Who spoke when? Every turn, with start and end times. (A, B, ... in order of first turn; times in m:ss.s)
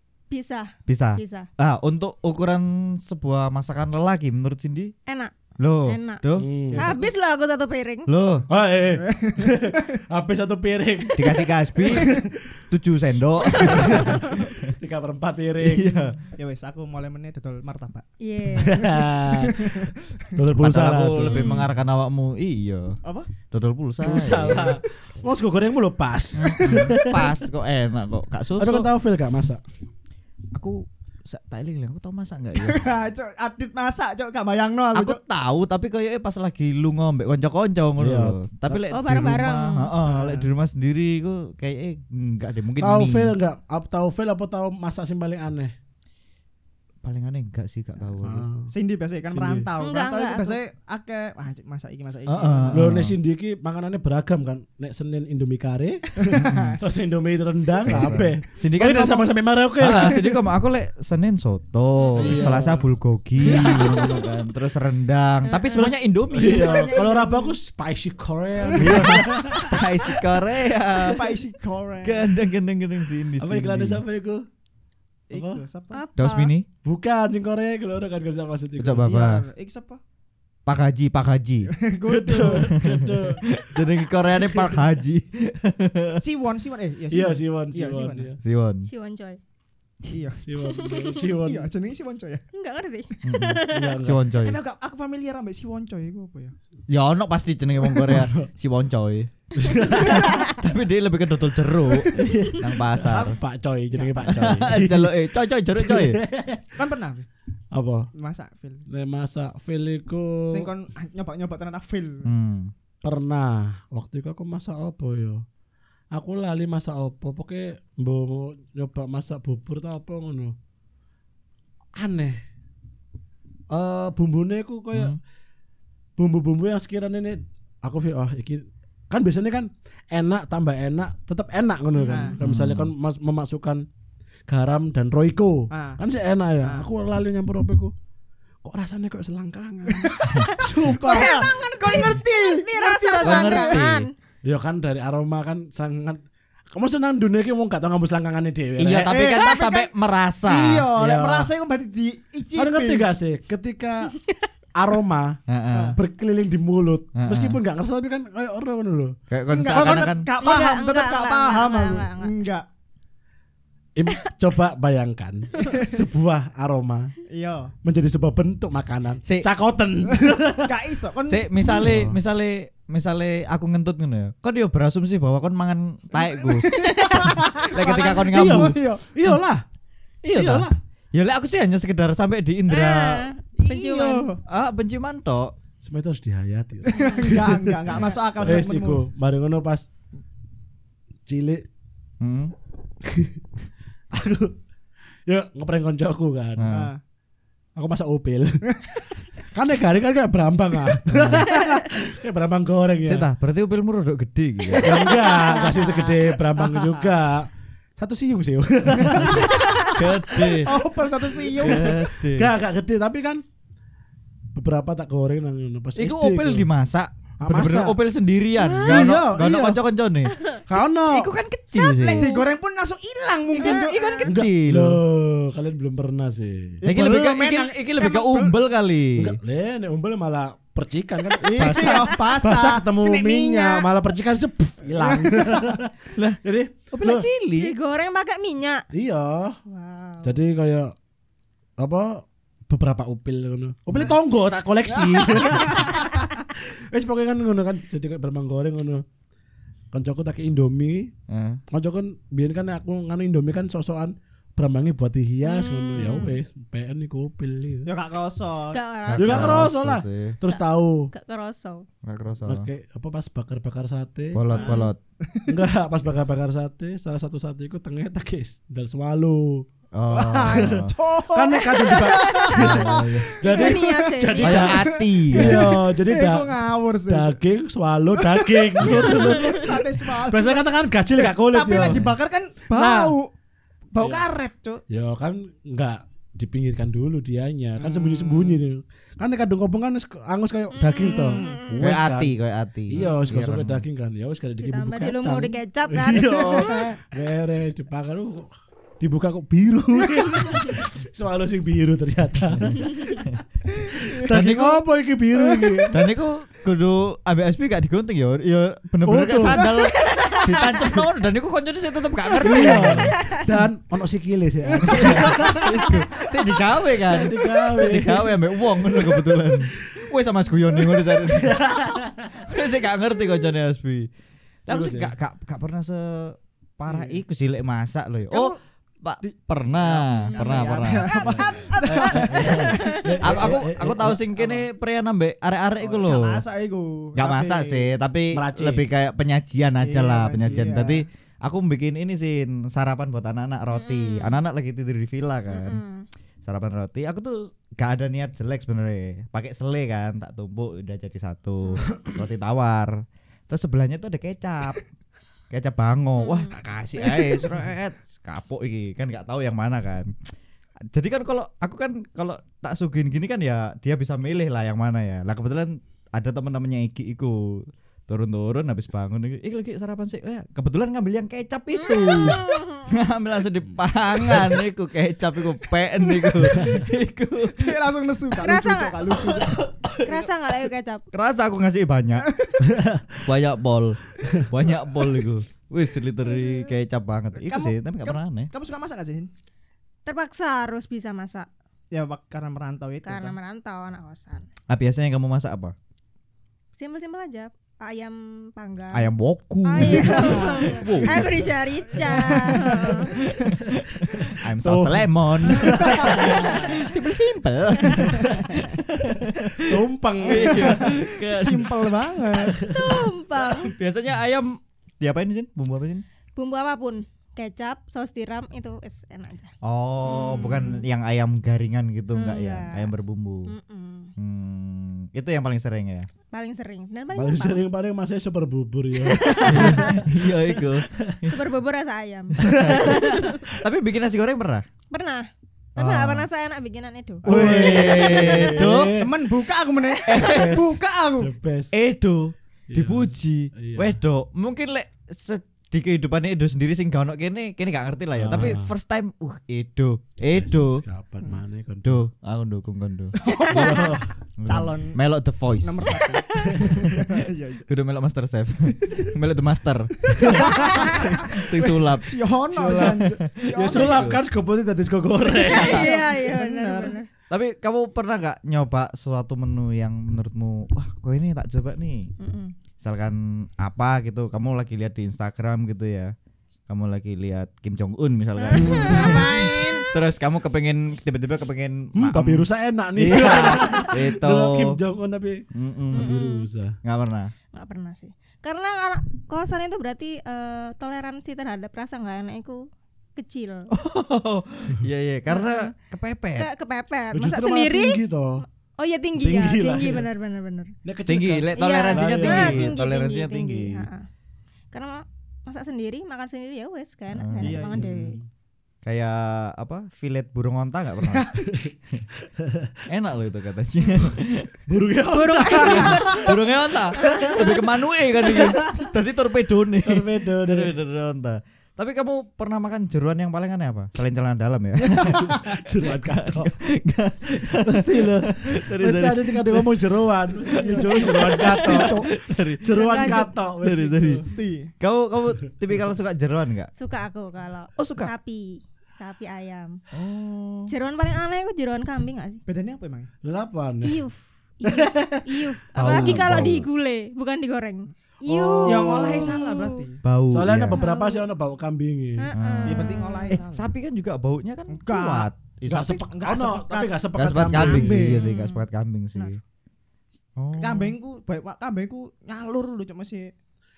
0:00.3-0:01.5 A
0:00.9-0:04.9 B
0:05.0-0:05.3 A
0:05.6-0:06.5 B
0:05.8-0:06.2 A
0:06.4-0:06.9 C
0:06.7-0:07.1 D
0:06.8-0:08.1 A
0:08.1-0:08.4 B
0:08.5-0:11.2 C
0:09.0-0:09.9 D
0:11.2-0:14.8 B
0:11.8-0:12.6 C
0:13.6-0:13.9 D
0:13.6-0:16.0 C
0:15.6-0:16.2 B
0:16.4-0:18.0 D
0:18.2-0:18.8 A
0:18.5-0:21.5 C
0:18.8-0:19.9 D
0:20.5-0:24.8 B
0:21.2-0:21.7 A
0:23.0-0:23.3 D
0:24.0-0:27.4 C
0:26.3-0:28.9 B
0:28.6-0:29.6 C
0:30.5-0:32.9 B
0:32.5-0:35.2 D
0:34.9-0:43.3 B
0:38.0-0:38.8 C
0:38.9-0:39.9 A
0:40.0-0:40.5 D
0:42.8-0:45.7 C
0:47.0-0:48.5 B
0:48.2-0:48.7 C
0:48.7-0:53.0 D
0:49.3-0:49.7 C
0:49.8-0:50.6 A
0:52.3-0:53.2 B
0:52.7-1:00.4 C
0:56.2-0:56.8 D
0:56.4-0:56.8 B
0:57.8-0:59.3 B
0:57.9-0:58.1 D
0:59.8-1:07.0 B
1:02.2-1:02.8 C
1:05.4-1:07.6 A
1:05.8-1:09.6 C
1:08.6-1:09.3 D
1:08.8-1:11.2 B
1:11.0-1:12.3 D
1:12.0-1:14.0 B
1:13.4-1:14.4 C
1:15.3-1:16.0 D
1:15.3-1:15.6 C
1:15.9-1:16.5 A
1:16.2-1:16.7 B
1:16.8-1:19.1 C
1:18.8-1:19.4 B
1:19.0-1:20.0 D
1:20.6-1:21.7 B
1:21.6-1:22.8 D
1:22.1-1:23.5 C
1:22.6-1:26.2 B
1:26.2-1:28.3 D
1:27.1-1:28.4 C
1:28.4-1:28.9 B
1:28.8-1:29.4 A
1:30.1-1:30.4 D
1:30.4-1:31.7 C
1:30.6-1:31.2 A
1:31.4-1:32.4 D
1:32.5-1:34.0 A
1:33.2-1:34.6 B
1:33.7-1:34.2 C
1:34.3-1:36.6 D
1:36.9-1:39.3 B
1:37.9-1:38.5 C
1:39.6-1:40.3 C
1:39.9-1:40.6 A
1:40.0-1:43.4 B
1:42.1-1:46.7 C
1:43.1-1:43.4 D
1:43.9-1:44.6 D
1:44.2-1:46.2 B
1:46.7-1:47.3 D
1:47.7-1:48.1 C
1:48.1-1:48.8 D
1:48.9-1:50.7 C
1:50.5-1:52.3 D
1:52.2-1:52.7 B
1:53.0-1:55.4 C
1:56.1-2:00.5 C
2:02.0-2:02.4 C
2:03.7-2:05.1 C
2:04.9-2:05.2 B
2:06.2-2:13.8 C
2:12.0-2:12.3 A
2:12.0-2:12.4 D
2:12.4-2:12.9 B
2:14.5-2:17.9 C
2:15.7-2:16.0 D
2:16.6-2:16.9 D
2:18.6-2:21.5 C
2:19.9-2:23.8 D
2:20.9-2:24.1 A
2:23.2-2:24.1 B
2:24.4-2:26.2 C
2:26.7-2:29.1 C
2:28.8-2:30.9 B
2:28.9-2:29.7 D
2:29.3-2:29.8 A
2:30.4-2:33.1 D
2:31.0-2:31.5 C
2:32.6-2:34.1 C
2:34.2-2:34.5 A
2:34.7-2:35.4 C
2:35.5-2:36.0 B
2:35.7-2:36.0 D
2:36.0-2:39.2 C
2:37.2-2:37.6 B
2:39.3-2:40.3 B
2:39.5-2:42.6 D
2:39.8-2:40.1 C
2:40.4-2:42.3 A
2:44.0-2:47.1 C
2:45.7-2:46.0 D
2:47.3-2:47.7 D
2:47.8-2:50.7 C
2:50.1-2:51.8 D
2:51.3-2:56.7 B
2:51.7-2:52.2 C
2:56.2-2:59.0 D
2:56.8-2:57.4 A
2:57.2-2:59.4 B
2:58.3-2:59.6 C
3:00.2-3:00.8 C
3:00.3-3:03.3 B
3:02.7-3:04.3 A
3:03.6-3:04.4 D
3:04.5-3:05.5 B
3:05.8-3:09.9 C
3:06.9-3:09.0 D
3:06.9-3:07.2 A
3:11.2-3:11.6 C
3:12.2-3:12.5 B
3:13.0-3:13.4 C
3:14.1-3:14.6 C
3:15.3-3:16.7 C
3:16.6-3:16.9 B
3:16.7-3:17.0 D
3:17.8-3:18.6 C
3:19.5-3:23.3 C
3:21.1-3:21.6 B
3:23.0-3:25.1 B
3:24.8-3:27.1 D
3:24.8-3:30.6 C
3:29.0-3:32.0 D
3:29.3-3:30.8 B
3:31.5-3:33.4 C
3:31.6-3:32.5 B
3:34.5-3:36.7 C
3:36.0-3:40.3 B
3:37.4-3:38.0 C
3:38.6-3:39.1 A
3:38.8-3:39.8 C
3:40.7-3:41.3 C
3:41.1-3:42.3 B
3:41.7-3:42.4 A
3:42.0-3:44.2 D
3:43.6-3:44.3 A
3:43.6-3:45.0 B
3:44.2-3:46.8 C
3:46.8-3:48.6 D
3:46.8-3:49.4 B
3:49.2-3:57.3 C
3:51.4-3:53.9 D
3:54.9-3:55.8 D
3:56.9-3:57.8 B
3:57.5-3:58.8 A
3:58.9-3:59.6 C
3:59.6-4:00.4 A
4:00.2-4:00.9 C
4:01.8-4:09.0 C
4:04.9-4:06.2 D
4:09.9-4:11.1 C
4:11.3-4:11.6 B
4:11.7-4:17.9 C
4:15.4-4:16.4 A
4:17.8-4:18.8 D
4:18.7-4:19.6 A
4:19.0-4:20.4 B
4:19.2-4:21.1 C
4:20.5-4:21.8 A
4:22.0-4:22.7 B
4:22.4-4:24.4 C
4:24.3-4:25.0 B
4:24.5-4:25.5 D
4:24.5-4:24.9 A
4:25.5-4:29.6 C
4:29.9-4:30.9 B
4:30.1-4:37.4 D
4:30.4-4:36.6 C
4:32.0-4:32.4 A
4:32.6-4:33.1 B
4:33.5-4:34.7 A
4:34.4-4:35.7 B
4:37.1-4:42.1 C
4:38.2-4:43.3 D
4:38.9-4:39.6 A
4:41.8-4:42.1 B
4:43.9-4:44.8 D
4:44.0-4:44.3 C
4:44.9-4:52.3 C
4:47.8-4:48.6 D
4:50.7-4:51.8 A
4:51.1-4:51.6 D
4:51.8-4:53.8 B
4:52.9-4:58.5 C
4:54.6-4:57.0 A
4:59.0-5:03.3 C
5:02.5-5:03.4 B
5:03.9-5:06.0 C
5:04.3-5:04.8 B
5:05.5-5:05.9 D
5:05.9-5:13.2 B
5:09.0-5:09.6 C
5:09.8-5:10.9 A
5:12.4-5:13.5 A
5:12.4-5:15.7 C
5:14.7-5:16.2 D
5:14.8-5:21.6 B
5:17.0-5:20.0 C
5:21.1-5:22.4 C
5:22.4-5:24.1 B
5:24.7-5:31.6 B
5:24.7-5:25.1 C
5:26.9-5:27.2 D
5:28.3-5:28.6 D
5:29.2-5:33.5 D
5:30.3-5:33.2 A
5:31.8-5:34.2 C
5:32.3-5:36.4 B
5:34.4-5:34.6 D
5:35.8-5:37.9 D
5:37.2-5:45.8 B
5:38.3-5:38.8 C
5:39.8-5:41.0 D
5:43.7-5:44.4 A
5:45.5-5:46.0 A
5:46.4-5:52.9 B
5:53.5-5:54.8 B
5:55.5-6:00.1 B
5:56.2-5:56.6 A
6:00.9-6:17.7 B
6:11.8-6:12.9 A
6:16.5-6:16.8 C
6:17.5-6:19.6 D
6:18.4-6:19.1 A
6:19.1-6:20.3 B
6:20.0-6:21.0 A
6:21.1-6:22.3 B
6:22.2-6:22.6 D
6:22.6-6:23.2 C
6:23.2-6:28.5 B
6:27.4-6:29.3 D
6:30.0-6:31.5 A
6:31.9-6:33.4 D
6:33.0-6:34.5 A
6:34.7-6:35.7 B
6:36.8-6:39.1 A
6:38.9-6:56.0 B
6:39.6-6:43.2 A
6:39.8-6:40.5 C
6:40.2-6:41.2 D
6:42.0-6:43.5 D
6:44.6-6:46.5 C
6:45.6-6:46.8 D
6:46.1-6:47.2 A
6:47.8-6:48.2 A
6:47.9-6:48.7 D
6:49.6-6:51.0 C
6:50.2-6:52.6 D
6:52.7-6:53.7 A
6:56.4-7:00.8 A
6:59.6-7:03.5 B
7:02.1-7:02.9 A
7:03.5-7:04.1 A
7:04.2-7:06.1 B
7:06.3-7:07.6 A
7:07.1-7:11.2 C
7:09.1-7:10.0 A
7:09.5-7:11.4 B
7:11.3-7:13.4 A
7:12.3-7:14.6 B
7:12.4-7:13.1 C
7:14.9-7:17.2 A
7:15.8-7:16.3 B
7:17.2-7:18.9 B
7:17.2-7:19.2 C
7:17.3-7:21.3 D
7:20.1-7:20.6 B
7:20.2-7:21.7 C
7:21.7-7:30.8 B
7:22.7-7:24.0 C
7:28.2-7:28.7 C
7:30.3-7:32.0 C
7:31.8-7:33.7 B
7:33.2-7:35.0 D
7:33.2-7:33.9 A
7:33.5-7:34.1 C
7:34.4-7:36.0 B
7:35.6-7:37.7 D
7:35.9-7:36.6 A
7:36.6-7:37.1 B
7:37.7-7:44.2 B
7:38.7-7:39.1 D
7:40.0-7:44.2 D
7:40.2-7:40.8 C
7:42.5-7:45.9 C
7:45.4-7:47.1 A
7:45.4-7:47.0 D
7:45.4-7:46.0 B
7:47.3-7:52.1 B
7:52.2-7:52.5 A
7:52.8-7:56.1 B
7:56.7-8:04.8 B
7:58.4-7:59.8 A
7:58.6-7:58.9 C
7:58.6-7:59.9 D
8:01.9-8:06.8 C
8:05.5-8:06.1 B
8:05.9-8:06.5 A
8:06.8-8:07.3 B
8:07.5-8:13.7 A
8:13.7-8:16.5 B
8:15.3-8:15.7 A
8:16.4-8:20.7 A
8:17.1-8:18.4 C
8:19.1-8:20.1 C
8:20.8-8:22.8 C
8:21.1-8:23.9 B
8:21.6-8:24.0 A
8:24.7-8:28.2 A
8:27.1-8:27.7 B
8:27.4-8:27.9 D
8:27.7-8:28.2 C
8:28.8-8:31.3 B
8:31.1-8:31.6 D
8:32.4-8:32.7 C
8:32.9-8:34.5 B
8:34.7-8:36.3 C
8:35.1-8:36.2 A
8:35.6-8:36.0 D
8:35.6-8:54.3 B
8:37.0-8:37.6 C
8:38.2-8:38.8 C
8:39.8-8:40.8 C
8:44.9-8:46.5 C
8:45.0-8:45.3 D
8:47.5-8:54.3 C
8:50.5-8:52.1 D
8:52.7-8:53.3 A
8:54.2-8:54.7 D
8:54.8-8:56.7 B
8:56.7-8:59.8 A
8:57.8-8:58.1 B
8:59.9-9:00.7 B
9:00.7-9:02.4 A
9:02.4-9:03.1 D
9:03.2-9:04.0 C
9:03.8-9:09.8 A
9:04.6-9:06.5 C
9:05.7-9:06.7 B
9:08.3-9:09.1 C
9:08.6-9:10.0 D
9:10.0-9:10.8 B
9:10.3-9:12.3 C
9:10.8-9:11.2 A
9:12.2-9:13.4 A
9:12.3-9:16.0 B
9:12.6-9:13.7 D
9:14.7-9:15.3 D
9:15.7-9:18.2 C
9:15.9-9:18.2 D
9:17.1-9:19.4 B
9:18.2-9:18.6 A
9:20.4-9:21.0 B
9:20.6-9:23.3 D